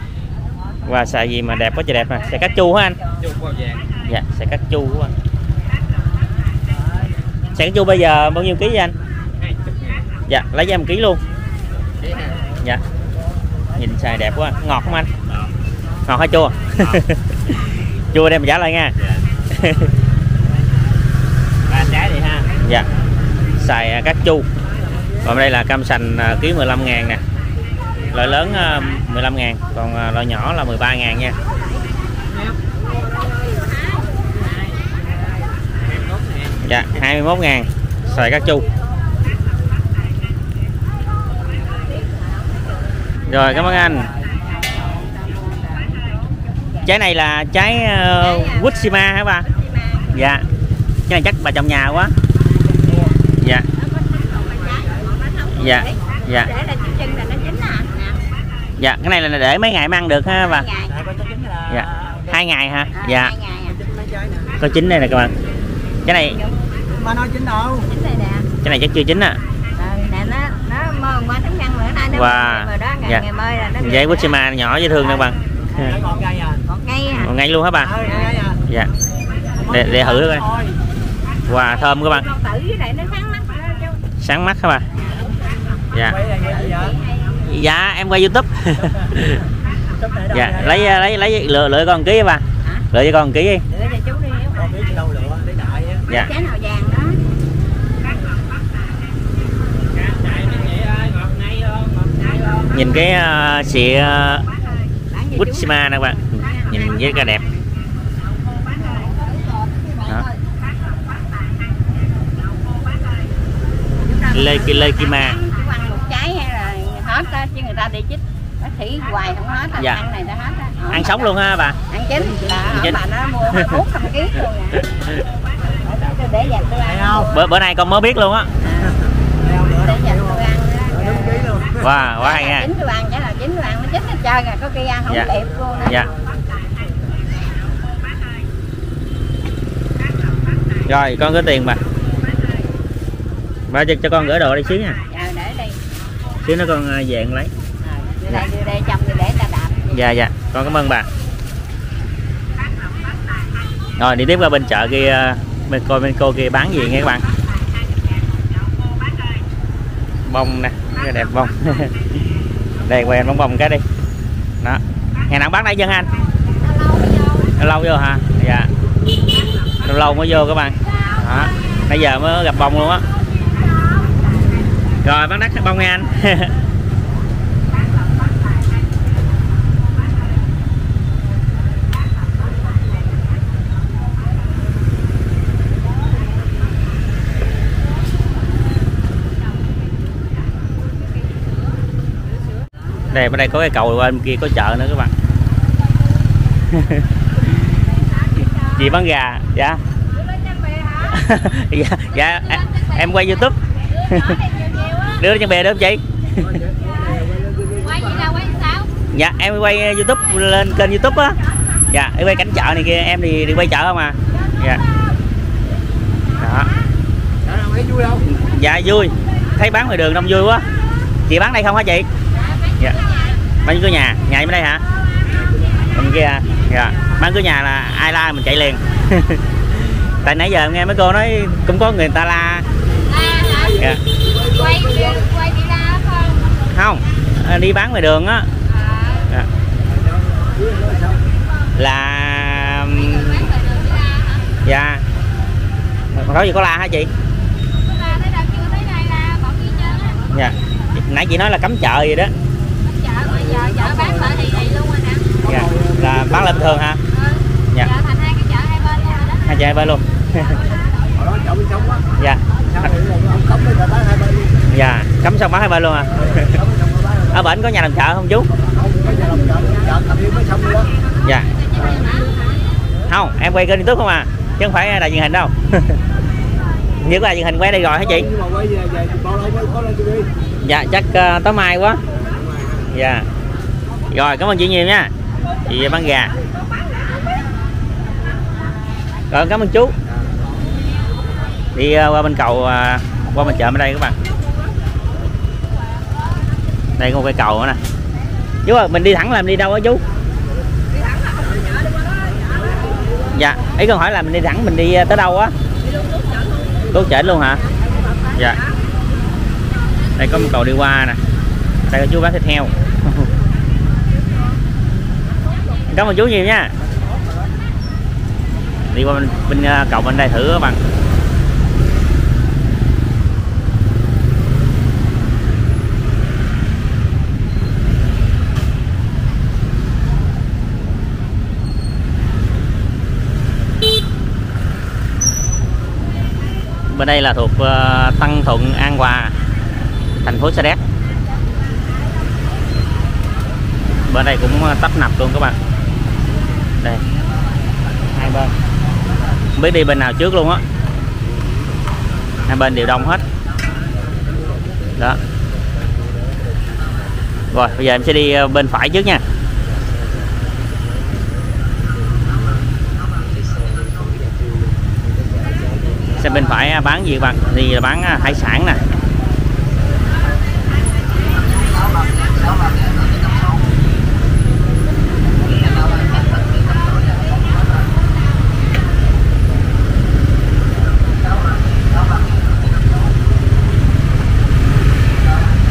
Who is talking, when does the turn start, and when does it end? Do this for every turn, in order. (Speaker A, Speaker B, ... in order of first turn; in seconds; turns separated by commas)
Speaker A: 0.8-3.0, Speaker B: 3.2-3.8, Speaker A: 4.1-5.1, Speaker A: 7.5-8.9, Speaker B: 9.5-10.0, Speaker A: 10.3-11.2, Speaker B: 12.0-12.4, Speaker A: 13.8-15.1, Speaker A: 16.1-18.9, Speaker A: 19.5-19.9, Speaker B: 21.7-22.5, Speaker A: 22.6-22.9, Speaker A: 23.6-24.5, Speaker A: 25.2-27.2, Speaker A: 28.1-31.4, Speaker B: 32.3-32.6, Speaker C: 33.3-34.1, Speaker B: 34.4-36.5, Speaker A: 36.6-38.6, Speaker C: 41.9-42.5, Speaker A: 43.2-44.1, Speaker C: 43.3-44.1, Speaker C: 45.3-46.8, Speaker A: 46.8-49.5, Speaker C: 48.2-50.1, Speaker A: 50.1-50.5, Speaker A: 51.1-52.1, Speaker B: 52.8-53.1, Speaker A: 53.4-53.7, Speaker C: 53.8-58.2, Speaker A: 55.5-56.5, Speaker A: 58.8-60.7, Speaker C: 60.4-60.9, Speaker B: 60.9-62.3, Speaker A: 61.7-63.3, Speaker C: 62.9-63.8, Speaker B: 63.6-64.6, Speaker A: 64.6-65.3, Speaker A: 66.0-66.4, Speaker C: 66.1-66.5, Speaker B: 66.9-67.9, Speaker C: 67.9-68.5, Speaker A: 68.6-69.4, Speaker C: 69.8-74.3, Speaker A: 72.1-73.3, Speaker A: 73.8-75.9, Speaker B: 75.8-76.6, Speaker C: 76.7-77.3, Speaker A: 77.1-77.9, Speaker B: 77.8-78.6, Speaker B: 79.6-80.8, Speaker A: 79.7-80.4, Speaker A: 81.5-82.3, Speaker C: 81.7-84.0, Speaker A: 84.2-84.8, Speaker B: 86.0-87.0, Speaker C: 86.5-87.4, Speaker A: 87.5-89.4, Speaker B: 88.8-89.2, Speaker B: 89.9-91.0, Speaker A: 90.3-93.6, Speaker B: 93.7-96.0, Speaker C: 96.1-97.2, Speaker B: 99.9-102.7, Speaker A: 102.7-104.5, Speaker C: 105.1-107.3, Speaker A: 105.3-107.4, Speaker C: 108.6-110.4, Speaker C: 114.0-121.3, Speaker A: 114.3-115.4, Speaker A: 119.8-120.0, Speaker A: 120.9-121.8, Speaker C: 121.9-124.8, Speaker A: 122.6-123.0, Speaker A: 123.5-123.8, Speaker C: 125.8-127.3, Speaker B: 126.7-127.3, Speaker A: 127.3-128.5, Speaker B: 128.8-131.8, Speaker C: 129.7-131.5, Speaker A: 131.8-132.7, Speaker C: 132.2-136.1, Speaker B: 135.5-136.1, Speaker A: 135.8-136.1, Speaker A: 140.8-141.8, Speaker A: 143.7-145.0, Speaker C: 145.1-145.8, Speaker A: 146.4-147.5, Speaker C: 147.8-149.9, Speaker A: 149.9-151.1, Speaker A: 154.0-157.2, Speaker A: 160.2-163.8, Speaker A: 164.6-166.1, Speaker C: 166.6-167.5, Speaker A: 167.6-168.7, Speaker A: 169.8-173.0, Speaker C: 173.7-174.5, Speaker A: 175.0-176.5, Speaker A: 193.1-195.1, Speaker A: 196.7-197.8, Speaker A: 198.7-199.8, Speaker C: 200.4-201.0, Speaker A: 201.1-204.4, Speaker C: 202.6-202.9, Speaker C: 204.1-205.2, Speaker A: 205.2-206.6, Speaker B: 206.4-208.3, Speaker C: 207.8-208.9, Speaker A: 209.1-211.4, Speaker A: 211.9-214.8, Speaker A: 216.4-216.7, Speaker B: 217.4-218.2, Speaker A: 218.2-220.6, Speaker A: 221.3-222.1, Speaker A: 223.6-224.8, Speaker A: 225.9-232.6, Speaker C: 233.1-233.8, Speaker B: 233.5-233.8, Speaker B: 234.3-235.2, Speaker C: 234.4-236.5, Speaker A: 236.7-238.5, Speaker C: 238.7-239.3, Speaker B: 239.9-241.2, Speaker A: 241.8-243.5, Speaker C: 243.1-244.5, Speaker A: 244.6-245.0, Speaker A: 246.2-247.1, Speaker C: 247.8-250.3, Speaker A: 250.3-252.3, Speaker C: 252.8-255.3, Speaker B: 253.2-254.5, Speaker B: 255.4-256.8, Speaker A: 255.4-257.0, Speaker C: 257.1-259.5, Speaker A: 259.4-260.6, Speaker B: 261.1-262.0, Speaker A: 262.2-262.9, Speaker B: 262.7-264.5, Speaker A: 264.7-266.6, Speaker B: 266.4-267.4, Speaker A: 267.3-268.5, Speaker B: 268.6-270.9, Speaker A: 271.2-271.5, Speaker B: 271.7-272.0, Speaker C: 271.8-272.4, Speaker A: 273.1-276.0, Speaker A: 277.0-278.3, Speaker B: 278.1-280.3, Speaker A: 280.6-282.0, Speaker B: 282.3-282.7, Speaker A: 282.9-283.2, Speaker A: 284.1-285.1, Speaker A: 285.6-286.3, Speaker A: 289.3-289.9, Speaker A: 291.7-294.1, Speaker A: 297.0-297.8, Speaker A: 298.6-300.0, Speaker C: 300.9-302.7, Speaker A: 303.3-305.5, Speaker C: 305.8-306.9, Speaker A: 306.9-307.6, Speaker C: 307.6-308.8, Speaker A: 310.2-311.2, Speaker A: 311.9-313.3, Speaker A: 315.9-316.7, Speaker A: 318.9-320.8, Speaker A: 336.9-339.3, Speaker A: 340.2-340.8, Speaker A: 344.1-345.6, Speaker A: 348.1-348.5, Speaker A: 349.6-350.6, Speaker A: 352.5-353.2, Speaker A: 357.5-359.2, Speaker A: 366.2-368.8